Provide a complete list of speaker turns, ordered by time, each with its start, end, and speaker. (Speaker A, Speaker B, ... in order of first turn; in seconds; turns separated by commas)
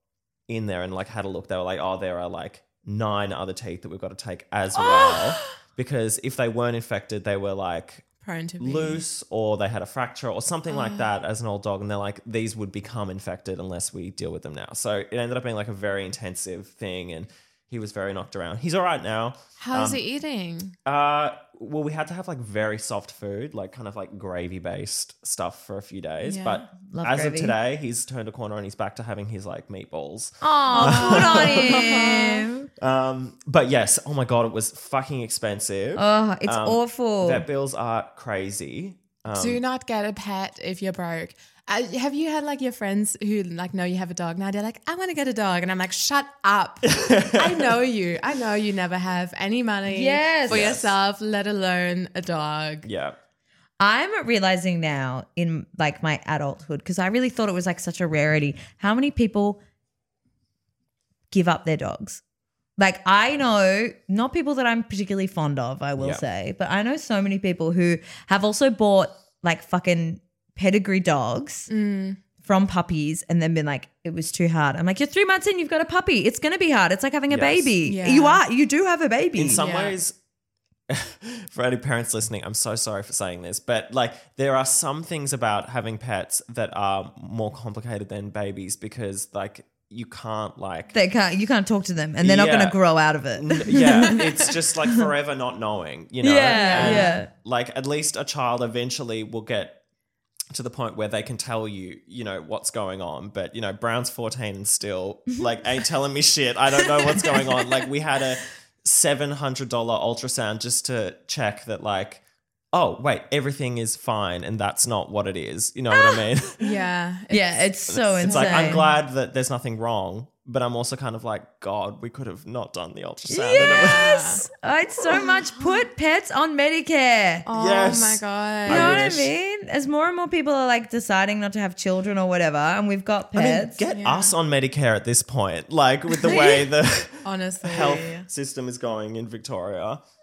Speaker A: 0.5-20.0, Speaker B: 4.8-5.4, Speaker B: 8.2-9.0, Speaker B: 10.7-11.1, Speaker B: 19.6-20.7, Speaker A: 20.9-32.0, Speaker B: 26.2-26.6, Speaker C: 26.8-27.5, Speaker C: 30.4-32.7, Speaker B: 30.7-32.5, Speaker A: 32.8-39.6, Speaker C: 36.0-37.5, Speaker B: 39.3-52.9, Speaker A: 46.9-47.8, Speaker C: 49.9-50.8, Speaker A: 50.5-50.9, Speaker A: 52.8-53.1, Speaker C: 53.8-59.6, Speaker C: 61.3-62.2, Speaker C: 62.8-71.7, Speaker B: 71.7-72.2, Speaker C: 72.4-79.7, Speaker A: 77.3-77.7, Speaker B: 77.8-78.4, Speaker A: 79.4-80.1, Speaker B: 79.6-80.0, Speaker A: 80.9-90.9, Speaker C: 90.9-95.0, Speaker A: 92.2-99.8, Speaker C: 96.2-97.3, Speaker B: 96.5-97.2, Speaker A: 100.5-116.6, Speaker C: 107.1-107.4, Speaker C: 115.9-116.2, Speaker B: 116.6-118.9, Speaker C: 117.3-118.8, Speaker A: 117.9-124.4, Speaker C: 123.3-127.5, Speaker B: 123.6-124.4, Speaker B: 125.2-125.7, Speaker B: 127.5-129.2, Speaker A: 127.5-129.3, Speaker C: 128.7-133.8, Speaker A: 133.3-140.0, Speaker B: 133.9-134.3, Speaker C: 136.2-136.7, Speaker B: 137.2-138.2